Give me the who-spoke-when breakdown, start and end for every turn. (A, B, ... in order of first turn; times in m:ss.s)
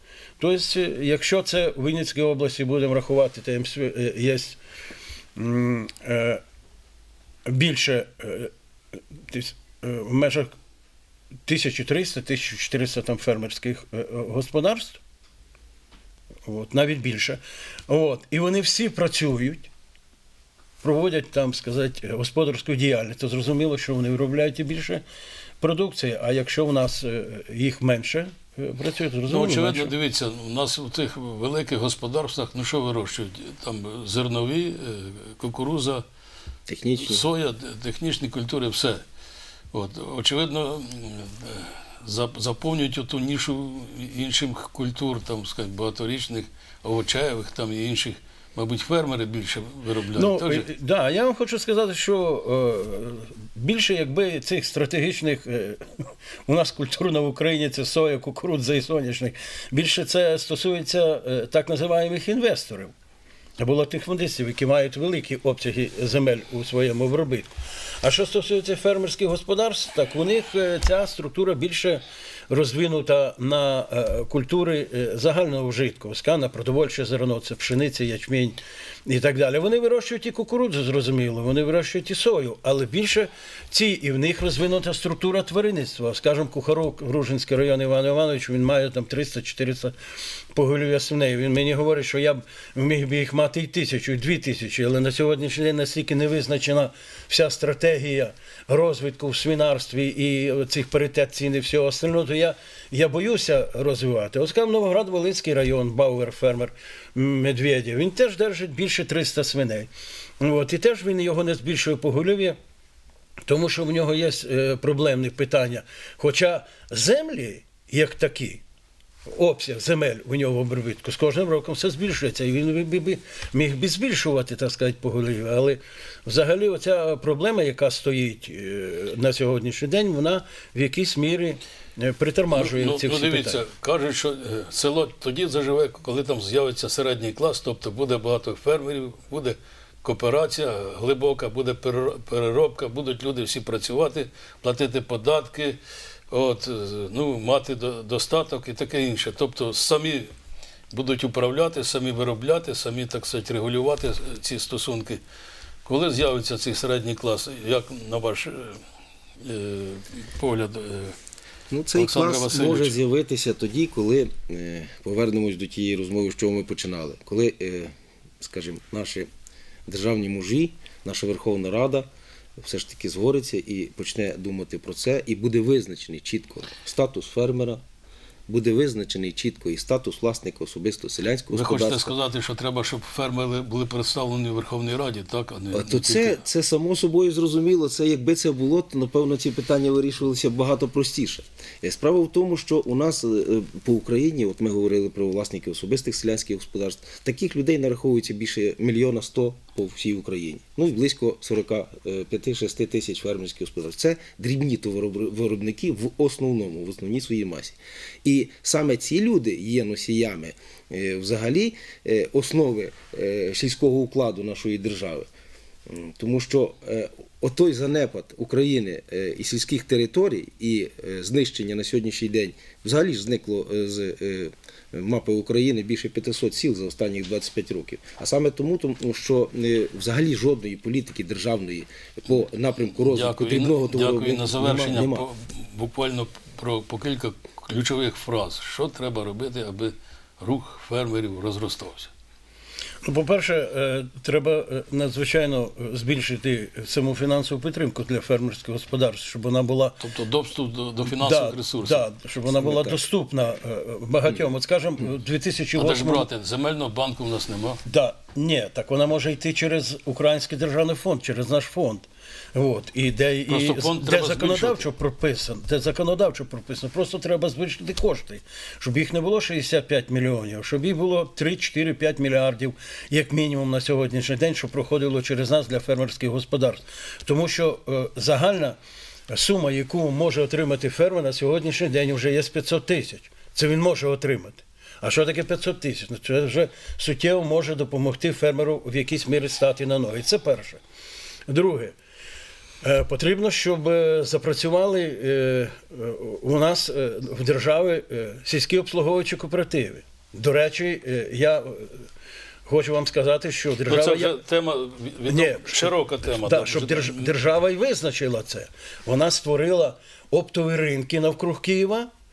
0:00.4-0:04.6 A
0:05.4-0:06.4 A
0:07.5-0:08.5 A
0:09.3-0:10.5 A
0:11.5-0:15.0 A
0:16.5-0:19.7 A
0:20.8-0:25.0 A
0:25.6-0:29.9 A
0:29.3-0:36.0 B
0:36.7-0:37.2 C
0:37.0-0:39.0 B
0:39.7-0:50.7 B
0:50.2-0:55.8 A
0:56.5-1:02.9 A
1:03.6-1:29.9 A
1:30.5-1:49.9 A
1:50.4-1:52.6 A
1:53.5-1:58.6 A
1:59.3-2:13.6 A
2:12.5-2:25.8 B
2:26.3-2:30.3 B
2:30.9-2:35.2 B
2:35.8-2:38.8 B
2:39.4-2:41.2 B
2:41.7-2:49.3 C
2:41.9-2:43.0 B
2:49.9-2:57.8 C
2:58.5-3:02.2 C
3:01.5-3:06.4 B
3:05.7-3:35.3 C
3:35.9-3:55.3 C
3:53.1-4:02.1 B
4:03.0-4:10.0 A
4:10.0-4:12.1 B
4:11.0-4:16.3 A
4:12.6-4:13.0 B
4:15.8-4:17.8 B
4:17.9-4:38.8 A
4:23.5-4:24.9 B
4:39.3-4:50.8 A
4:51.5-4:52.0 A
4:52.8-5:02.1 A
5:02.7-5:04.4 A
5:03.9-5:07.3 B
5:05.3-5:12.1 A